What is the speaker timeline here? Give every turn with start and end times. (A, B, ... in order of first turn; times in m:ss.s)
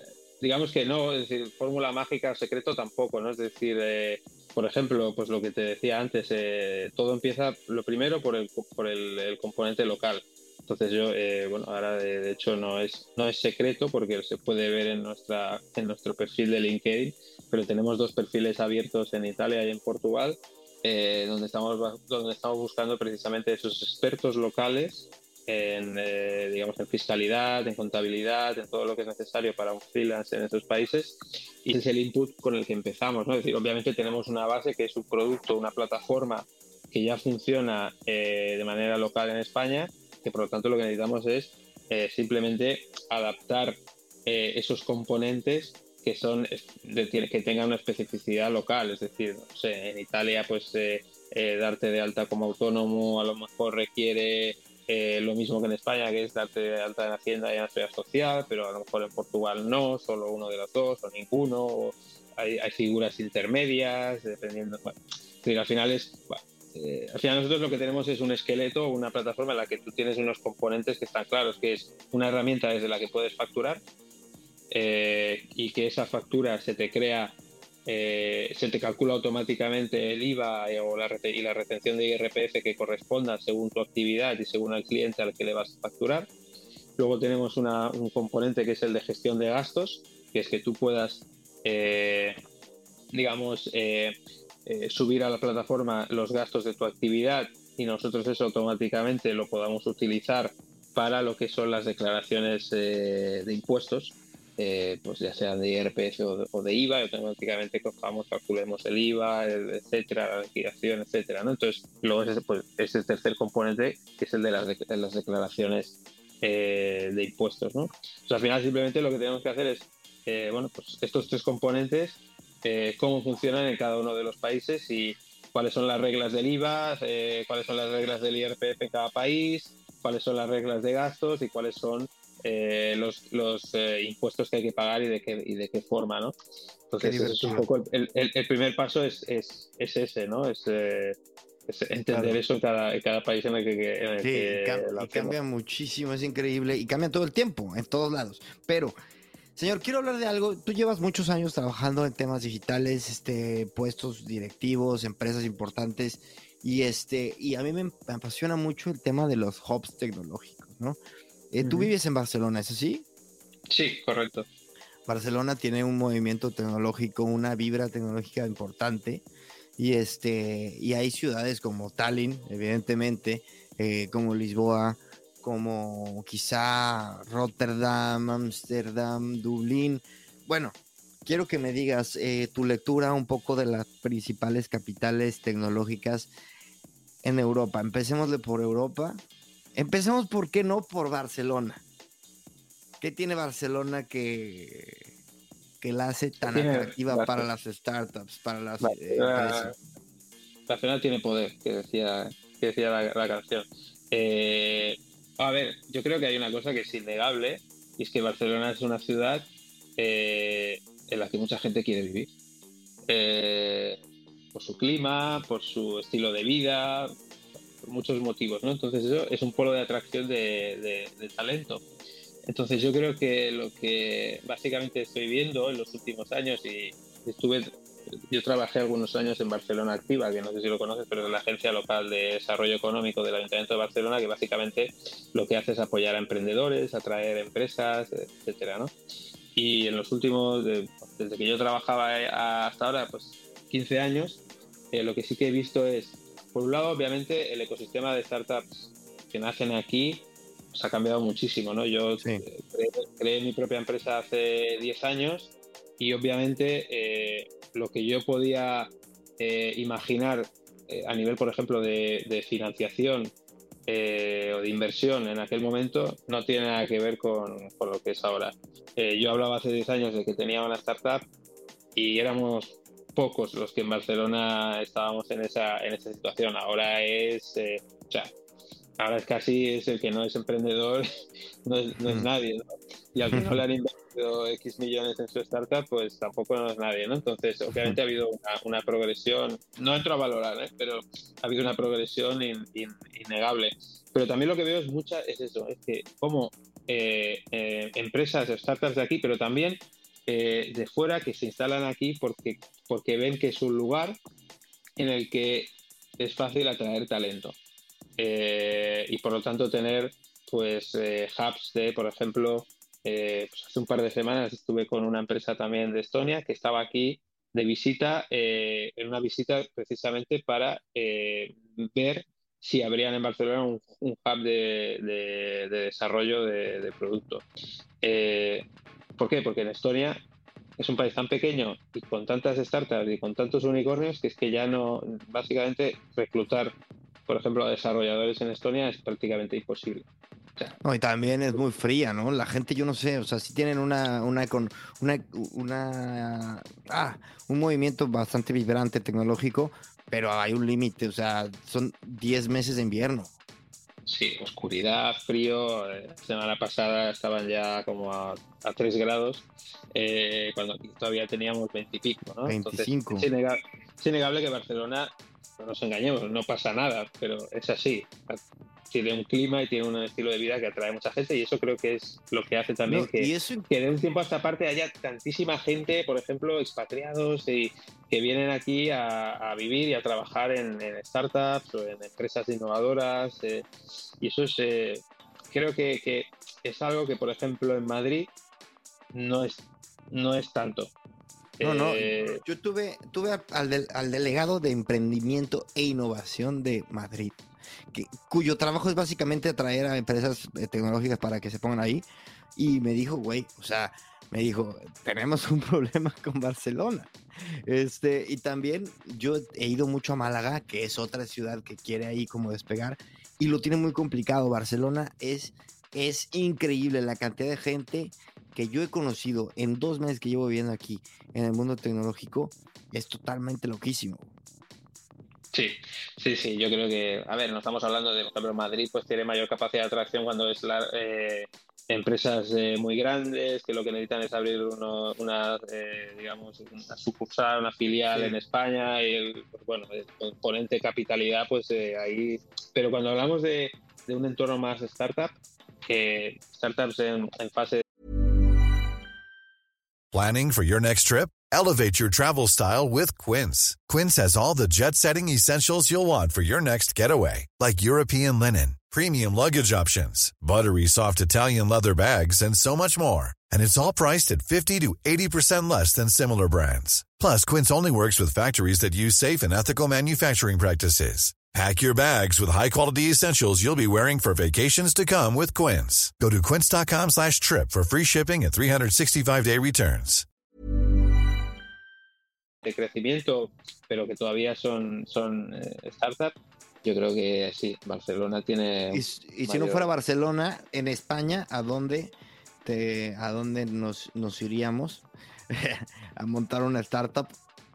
0:00.4-1:13.8 A
1:14.7-1:26.3 A
1:27.0-1:32.4 A
1:33.1-2:16.3 A
2:16.9-2:21.2 A
2:17.0-2:17.6 B
2:21.7-2:25.4 A
2:22.1-2:22.4 B
2:24.2-2:29.0 B
2:29.6-2:41.0 B
2:41.5-2:43.0 B
2:41.6-2:41.9 A
2:43.7-2:44.5 A
2:45.0-2:49.2 B
2:49.8-3:06.3 B
3:07.2-3:09.2 B
3:09.7-3:11.8 B
3:13.0-3:15.1 B
3:15.8-3:19.7 B
3:16.4-3:17.5 A
3:18.8-3:19.7 A
3:20.7-3:32.3 A
3:33.1-3:34.0 A
3:34.5-3:37.1 A
3:37.8-3:41.8 A
3:42.5-3:47.7 A
3:48.3-3:58.9 A
3:59.5-4:23.3 A
4:23.9-4:31.3 A
4:31.9-4:38.3 A
4:39.0-4:41.1 A
4:41.6-5:04.2 A
4:43.3-4:43.6 B
5:05.0-5:07.6 A
5:08.2-5:27.4 A
5:28.0-5:30.2 A
5:30.8-5:36.8 A
5:37.3-5:40.0 A
5:40.8-5:53.3 B
5:54.0-6:28.3 A
6:02.4-6:03.3 B
6:12.9-6:13.7 B
6:29.1-6:30.9 A
6:31.6-6:32.4 A
6:31.6-6:37.4 B
6:37.9-6:42.0 B
6:42.6-6:47.1 B
6:47.6-7:04.3 B
7:05.5-7:25.3 A
7:18.1-7:18.4 B
7:25.8-7:27.8 A
7:30.1-8:00.3 C
8:02.6-8:09.9 A
8:08.9-8:17.3 B